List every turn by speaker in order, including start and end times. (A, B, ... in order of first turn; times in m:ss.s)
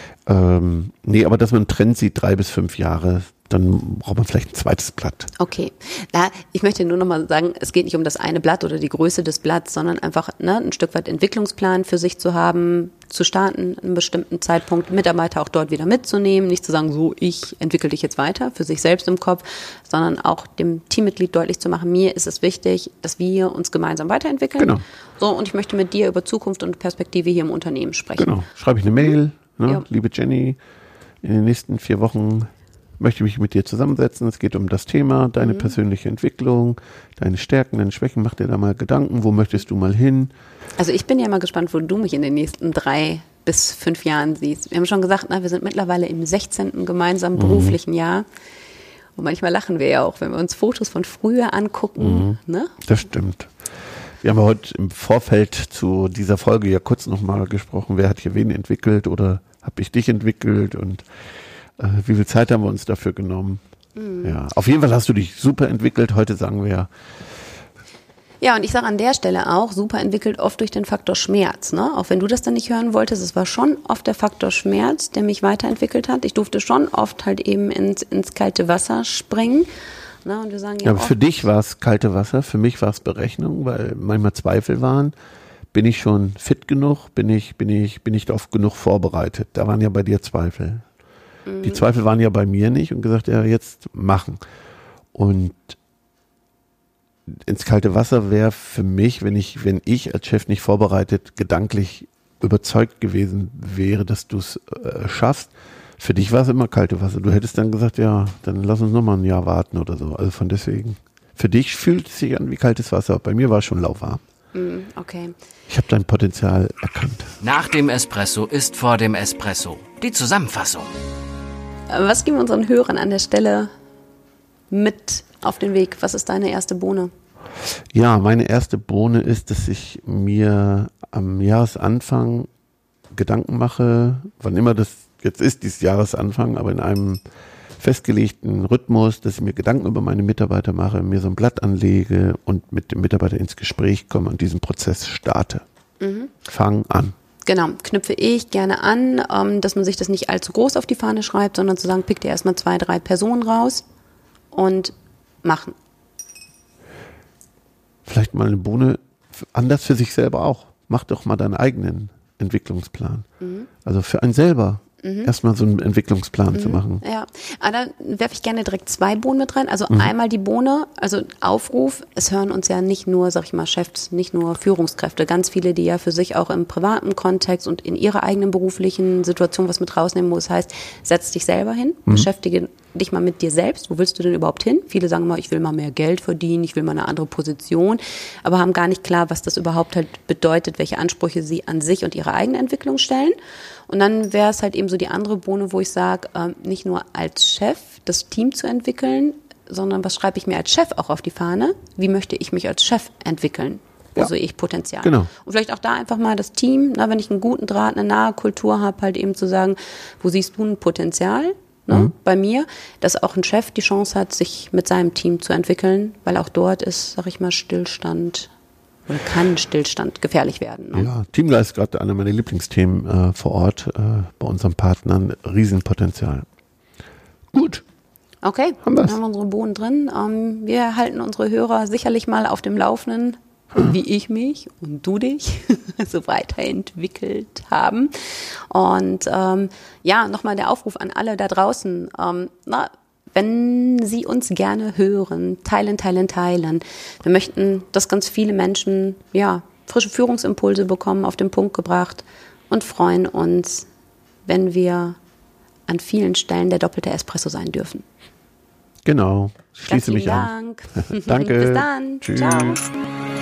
0:00.2-0:05.3 A
0:05.4-0:28.3 B
0:24.6-0:24.8 A
0:28.2-0:30.6 A
0:29.0-0:29.8 B
0:31.2-0:40.3 A
0:35.4-0:35.8 B
0:40.8-0:48.3 B
0:47.3-0:47.8 A
0:49.1-0:52.8 B
0:52.0-0:53.5 A
0:54.2-1:01.0 A
1:01.8-1:03.6 A
1:04.0-1:04.4 B
1:04.2-1:06.9 A
1:08.4-1:19.7 B
1:20.2-1:21.4 B
1:20.8-1:25.1 A
1:25.7-1:30.8 A
1:31.4-1:31.8 B
1:31.6-1:34.4 A
1:35.1-1:35.8 A
1:37.3-1:54.2 A
1:54.5-1:55.3 B
1:55.7-1:57.3 A
1:57.4-2:00.9 C
2:01.9-2:03.7 B
2:04.7-2:07.1 B
2:07.9-2:12.5 A
2:13.1-2:17.2 A
2:17.8-2:25.6 A
2:26.0-2:26.3 B
2:26.5-2:27.1 A
2:27.4-2:33.8 B
2:34.5-2:35.7 B
2:38.0-2:43.2 A
2:43.4-2:43.7 B
2:43.8-2:47.0 A
2:45.0-2:45.3 B
2:46.5-3:13.3 B
3:13.9-3:38.5 B
3:25.0-3:25.3 A
3:39.1-3:41.1 B
3:40.9-3:46.4 A
3:47.5-3:47.8 A
3:48.4-3:58.1 B
3:48.8-3:49.1 A
3:58.7-4:13.9 B
4:14.4-4:15.2 B
4:15.9-4:18.0 B
4:19.0-4:22.8 A
4:19.9-4:22.8 B